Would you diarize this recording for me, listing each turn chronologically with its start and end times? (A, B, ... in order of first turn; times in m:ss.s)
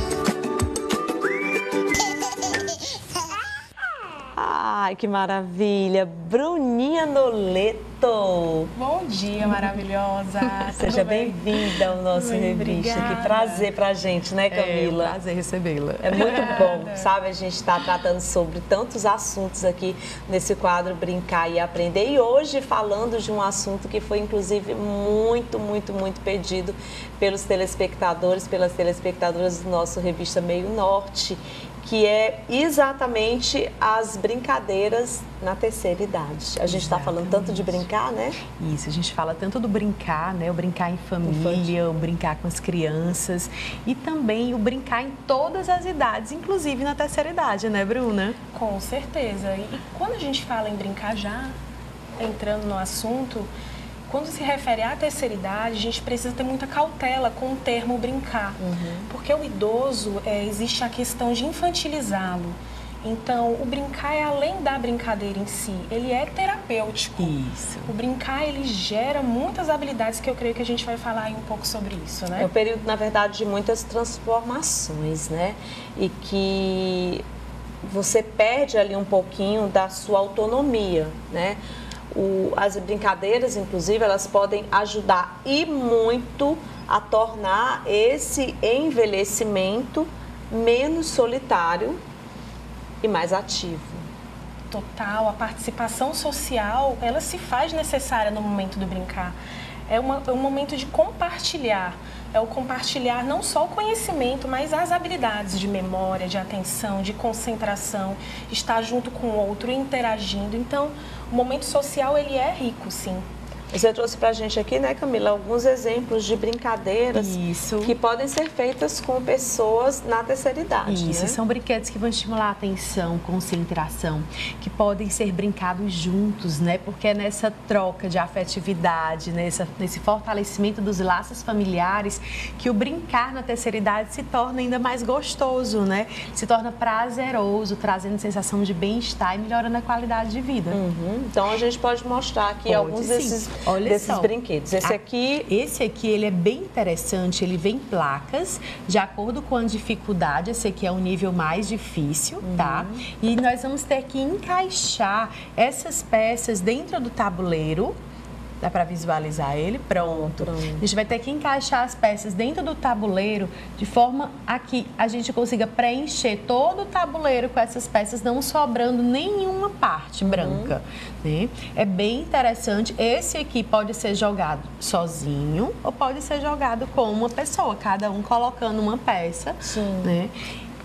0:04.3-0:08.7 A
0:08.8-0:11.4 B
0:10.8-0:15.2 A
0:12.2-0:13.5 C
0:12.4-0:13.7 B
0:14.5-0:16.8 C
0:16.0-0:38.4 A
0:16.2-0:17.1 B
0:36.7-0:37.9 C
0:38.6-0:48.4 C
0:41.2-0:41.7 A
0:48.5-0:51.6 B
0:52.2-0:53.5 B
0:54.1-1:12.5 B
0:58.6-0:59.1 A
1:07.2-1:07.9 C
1:12.4-1:17.2 A
1:17.8-1:21.6 A
1:22.1-1:32.0 A
1:33.0-1:34.0 A
1:34.7-1:39.4 B
1:39.9-1:53.2 B
1:53.7-2:01.4 A
1:57.1-1:58.0 C
2:00.9-2:20.8 C
2:20.7-2:25.5 A
2:22.7-2:24.3 C
2:24.8-2:38.0 C
2:32.4-2:33.0 A
2:38.6-3:00.3 C
2:40.3-2:40.8 A
2:50.3-2:50.7 A
2:59.6-3:00.2 A